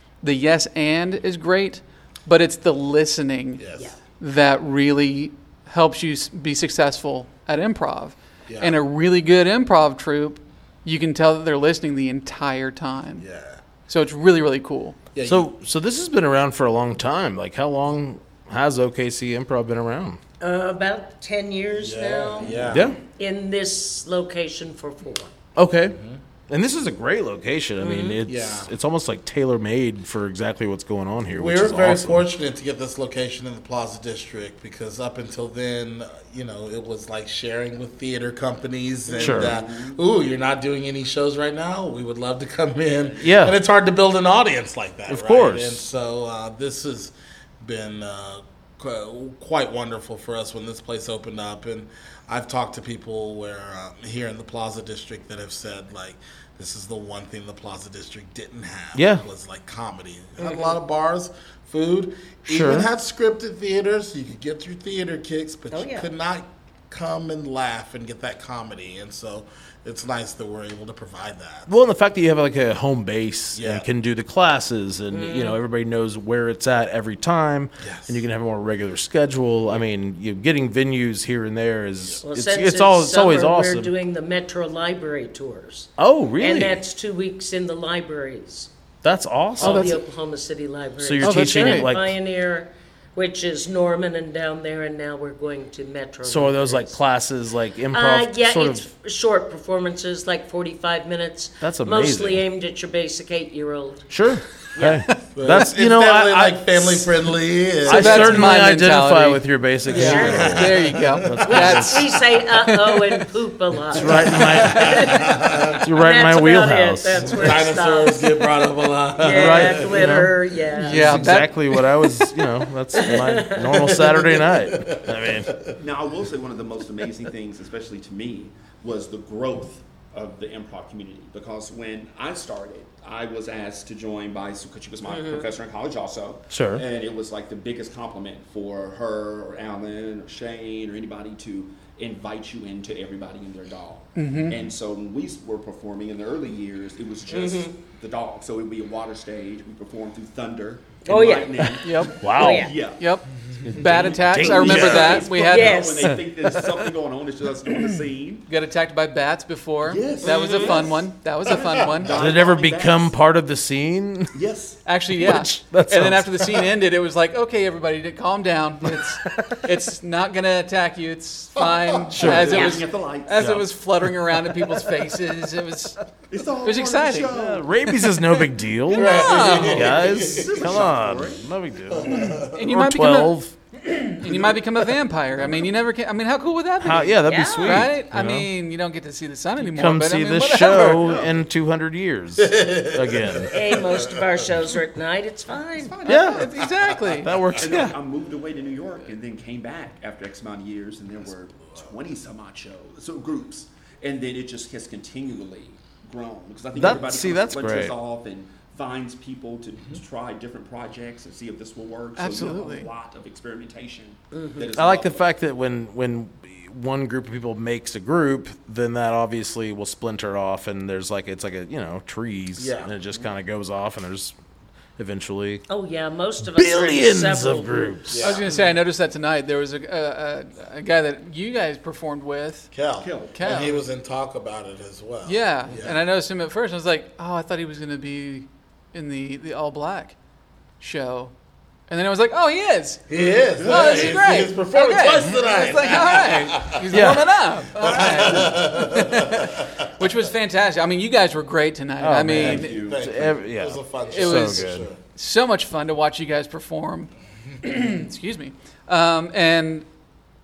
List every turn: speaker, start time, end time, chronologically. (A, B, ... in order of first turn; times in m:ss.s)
0:00.2-0:03.6 A
0:03.6-0:04.0 B
0:04.2-0:13.2 A
0:08.5-0:08.8 B
0:13.2-0:13.6 B
0:13.9-0:15.0 A
0:15.1-0:15.5 B
0:15.2-0:20.2 C
0:20.4-0:25.3 D
0:21.8-0:23.0 B
0:22.7-0:23.0 C
0:25.6-0:26.0 C
0:25.9-0:26.2 B
0:26.5-0:32.2 C
0:27.8-0:28.2 D
0:28.2-0:28.7 B
0:31.4-1:11.7 B
0:39.2-0:40.0 E
0:39.2-0:39.5 C
0:43.2-0:43.5 C
0:45.1-0:45.8 C
0:58.9-0:59.2 C
1:00.4-1:00.8 D
1:02.5-1:02.9 C
1:05.7-1:06.1 D
1:11.7-1:23.9 C
1:13.5-1:13.9 B
1:15.1-1:15.6 D
1:17.8-1:18.2 B
1:22.2-1:28.7 D
1:26.0-1:26.8 C
1:29.0-1:30.0 C
1:29.6-1:37.0 D
1:31.0-1:32.2 C
1:31.2-1:31.9 A
1:36.2-1:38.8 C
1:37.9-1:44.1 D
1:41.6-1:42.4 C
1:44.1-1:47.3 C
1:44.7-1:45.1 D
1:45.3-1:48.5 B
1:47.8-1:52.0 C
1:47.8-1:52.1 A
1:49.9-1:50.6 D
1:49.9-1:51.9 B
1:51.5-1:58.3 D
1:53.9-1:55.2 C
1:54.0-1:55.8 B
1:55.8-1:57.6 C
1:57.3-2:00.2 B
1:59.2-2:01.3 D
1:59.3-2:05.6 C
2:00.8-2:01.8 A
2:02.9-2:04.0 D
2:03.7-2:05.7 B
2:05.8-2:33.0 E
2:15.0-2:15.5 D
2:16.5-2:16.8 C
2:24.2-2:24.6 A
2:27.3-2:27.7 D
2:31.0-2:32.7 D
2:31.8-2:32.4 A
2:32.2-2:32.7 C
2:33.0-2:36.0 A
2:33.6-2:35.2 C
2:33.7-2:38.4 E
2:35.4-2:36.2 D
2:38.5-2:42.2 A
2:39.8-2:43.1 E
2:40.2-2:40.8 D
2:42.1-2:44.3 C
2:44.3-2:44.8 E
2:44.8-2:56.0 A
2:45.2-2:46.6 C
2:48.9-2:49.6 C
2:51.6-2:52.2 B
2:52.1-2:52.6 C
2:52.2-2:53.5 E
2:52.5-2:52.8 D
2:53.4-2:54.1 C
2:56.3-2:57.7 E
2:56.6-2:57.3 A
2:57.2-3:03.6 C
2:58.0-3:00.0 A
2:58.9-3:00.8 B
2:59.8-3:01.5 E
3:01.9-3:02.6 B
3:02.0-3:03.4 A
3:03.9-3:11.1 A
3:06.8-3:08.5 C
3:07.2-3:07.9 D
3:09.6-3:13.6 C
3:11.0-3:11.4 E
3:12.4-3:14.4 B
3:13.5-3:16.0 D
3:15.8-3:16.2 E
3:16.0-3:17.3 A
3:16.0-3:16.5 C
3:16.6-3:17.2 B
3:17.2-3:17.9 C
3:17.6-3:35.2 E
3:26.7-3:27.9 C
3:32.2-3:32.9 A
3:34.3-3:34.7 D
3:34.8-3:44.3 C
3:42.6-3:42.9 B
3:45.0-3:45.6 C
3:45.7-3:48.2 D
3:46.4-3:48.2 C
3:48.1-3:48.5 B
3:48.2-3:52.7 A
3:52.7-3:56.0 B
3:53.0-3:53.6 E
3:53.3-3:53.8 A
3:55.2-4:00.2 A
4:00.8-4:01.3 A
4:01.9-4:03.0 A
4:03.1-4:06.8 B
4:03.6-4:04.2 E
4:03.6-4:12.8 A
4:06.9-4:07.2 C
4:07.7-4:09.9 B
4:12.0-4:14.8 C
4:12.3-4:13.3 E
4:12.8-4:15.0 B
4:14.1-4:17.1 A
4:17.6-4:19.9 A